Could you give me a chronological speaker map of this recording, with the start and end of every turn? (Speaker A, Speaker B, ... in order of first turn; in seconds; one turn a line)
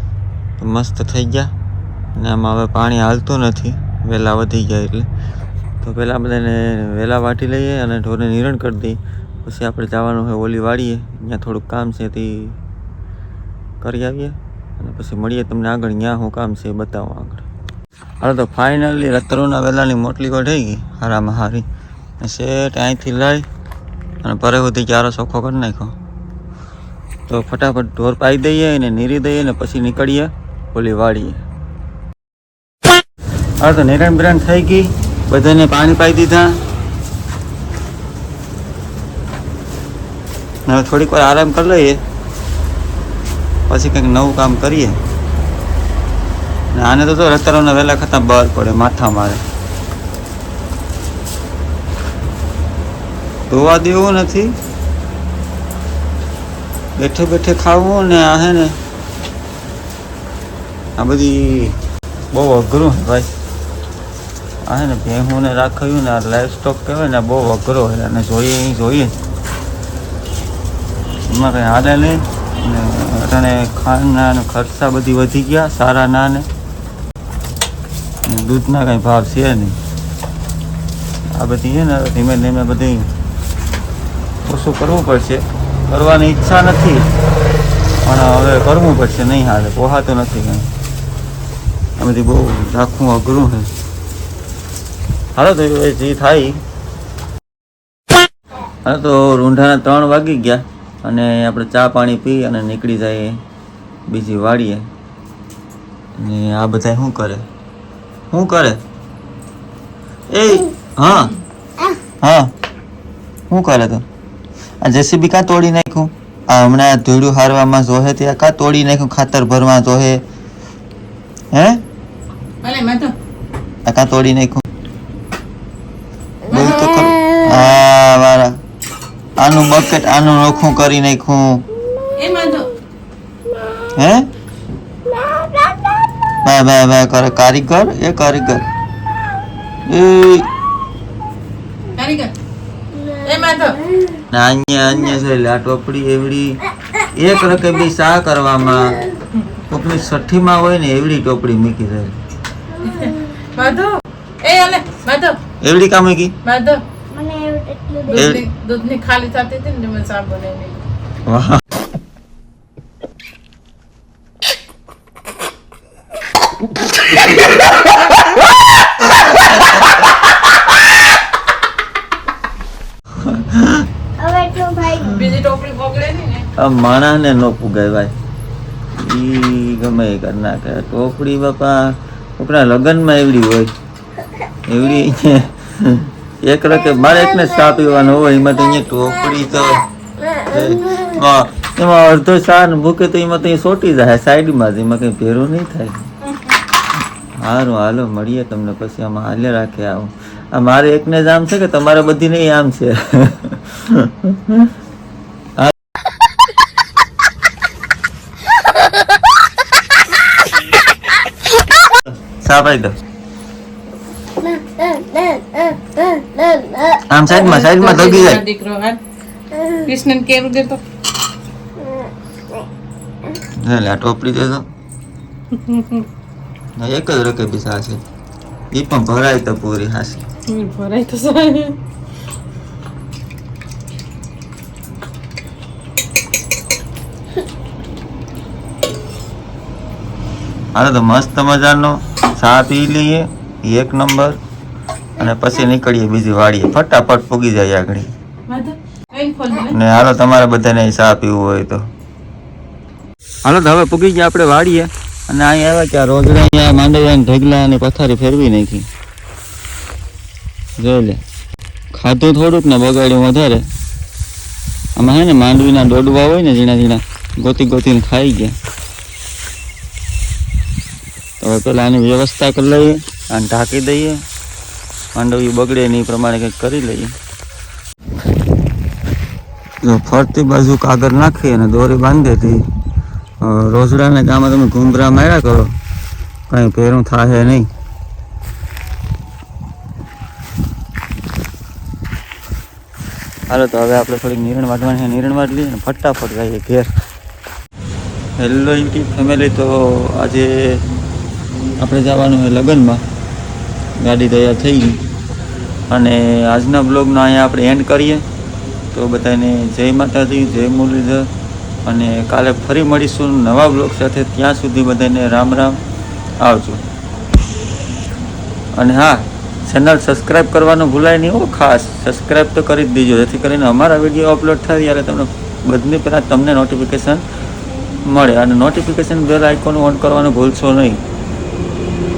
Speaker A: 0.6-1.5
Speaker A: 2.1-5.1
Speaker A: 5.8-12.6
Speaker A: 13.8-17.4
Speaker A: 18.2-21.6
Speaker A: 22.2-23.4
Speaker A: 24.2-25.9
Speaker A: 27.3-31.4
Speaker A: 33.6-36.6
Speaker A: 40.7-42.0
Speaker A: 43.7-45.0
Speaker A: 46.7-49.4
Speaker A: 53.5-54.5
Speaker A: 57.0-58.8
Speaker A: 61.0-61.8
Speaker A: 62.3-63.3
Speaker A: 64.7-69.1
Speaker A: 71.3-76.5
Speaker A: 78.2-79.8
Speaker A: 81.3-83.1
Speaker A: 84.4-87.1
Speaker A: 88.0-90.7
Speaker A: 92.0-93.7
Speaker A: 95.3-96.6
Speaker A: 98.8-103.4
Speaker A: 104.1-104.8
Speaker A: 106.2-107.5
Speaker A: 108.3-108.8
Speaker A: 110.3-111.3
Speaker A: 112.2-112.5
Speaker A: 113.5-114.0
Speaker A: 114.8-120.2
Speaker A: 121.5-121.8
Speaker B: 122.6-123.1
Speaker A: 123.8-124.6
Speaker A: 126.5-128.6
Speaker A: 129.4-131.6
Speaker B: 132.2-132.7
Speaker A: 133.9-134.3
Speaker C: 135.2-135.9
Speaker A: 136.4-138.7
Speaker A: 139.8-140.5
Speaker B: 141.9-142.3
Speaker B: 143.2-143.8
Speaker A: 144.3-146.6
Speaker A: 147.1-149.0
Speaker A: 149.7-152.2
Speaker B: 152.8-155.4
Speaker A: 155.6-156.3
Speaker B: 156.4-156.8
Speaker C: 157.1-158.2
Speaker B: 158.1-160.8
Speaker A: 158.1-158.4
Speaker A: 161.3-161.6
Speaker A: 173.2-173.9
Speaker C: 174.2-175.1
Speaker A: 175.0-175.4
Speaker B: 175.1-176.5
Speaker A: 176.6-178.1
Speaker A: 178.9-183.7
Speaker A: 184.7-196.1
Speaker A: 197.4-204.7
Speaker A: 212.3-212.9
Speaker C: 214.8-216.9
Speaker A: 217.0-218.4
Speaker B: 217.3-219.0
Speaker B: 219.7-220.8
Speaker A: 223.5-224.7
Speaker B: 225.5-226.1
Speaker A: 226.8-228.0
Speaker A: 228.7-230.2
Speaker B: 230.5-231.8
Speaker A: 240.7-244.4
Speaker A: 245.2-248.1
Speaker B: 248.5-249.7
Speaker A: 249.6-251.8
Speaker A: 253.4-258.9
Speaker A: 260.8-261.2
Speaker A: 261.9-263.6
Speaker A: 264.9-268.5
Speaker A: 271.4-274.2
Speaker A: 275.1-277.1
Speaker A: 279.8-282.6
Speaker A: 283.4-285.8
Speaker A: 286.5-287.7
Speaker A: 293.5-296.9
Speaker A: 298.4-300.9
Speaker A: 301.8-303.0
Speaker A: 304.0-305.0
Speaker A: 305.9-308.2
Speaker A: 308.9-311.3
Speaker A: 311.8-315.8
Speaker A: 316.4-316.8
Speaker A: 318.7-327.2
Speaker A: 328.0-331.0